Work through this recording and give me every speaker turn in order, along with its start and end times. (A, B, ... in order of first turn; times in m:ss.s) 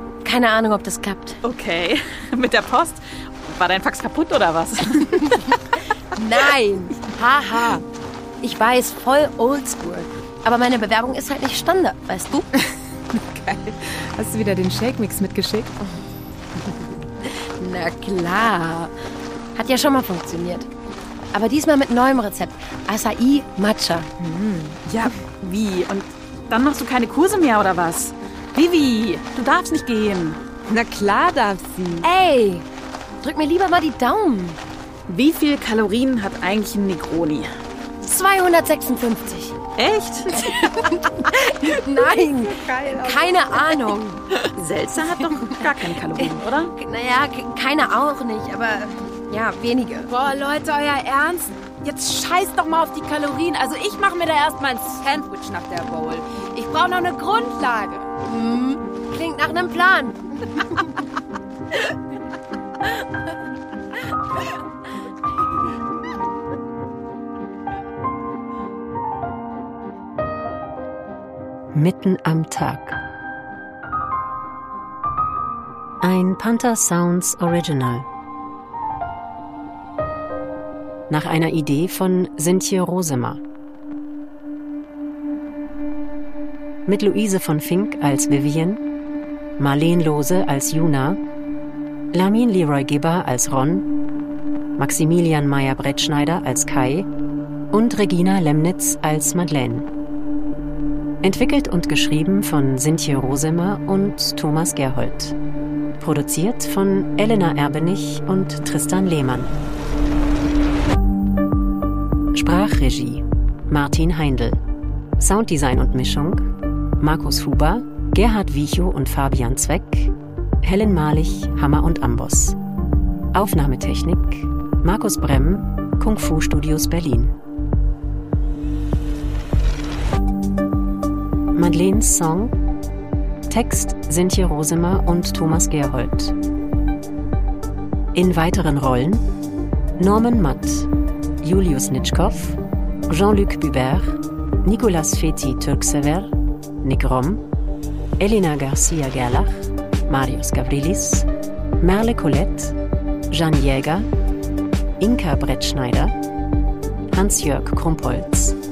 0:00.2-0:01.4 A
0:01.4-0:05.6 B
0:06.1-0:07.8 A
0:08.4-0:12.5 A
0:13.1-0:15.7 C
0:17.2-0:18.9 A
0:19.5-0:20.7 A
0:21.3-0:24.1 A
0:24.2-0:24.8 C
0:24.8-0:30.4 B
0:30.6-0:32.1 C
0:32.0-0:32.6 A
0:33.2-0:34.6 A
0:35.1-0:37.5 B
0:38.0-0:39.6 A
0:39.8-0:40.3 B
0:40.6-0:44.2 A
0:41.8-0:43.8 C
0:44.6-0:46.7 B
0:46.2-0:50.1 A
0:50.1-0:58.1 C
0:58.2-1:00.8 A
1:11.7-1:13.0 D
1:16.0-1:18.0 D
1:21.1-1:23.4 D
1:26.8-1:28.8 D
1:29.6-1:31.2 D
1:32.1-1:33.9 D
1:34.8-1:37.1 D
1:37.7-1:39.9 D
1:41.2-1:45.3 D
1:46.0-1:49.5 D
1:52.3-1:54.6 D
1:55.2-1:56.5 D
1:57.0-2:02.6 D
2:03.3-2:07.3 D
2:11.5-2:12.6 D
2:13.5-2:16.3 D
2:18.1-2:19.2 D
2:20.0-2:20.9 D
2:21.4-2:27.4 D
2:28.2-2:31.3 D
2:31.8-2:32.8 D
2:33.3-2:34.1 D
2:35.0-2:36.1 D
2:37.1-2:38.6 D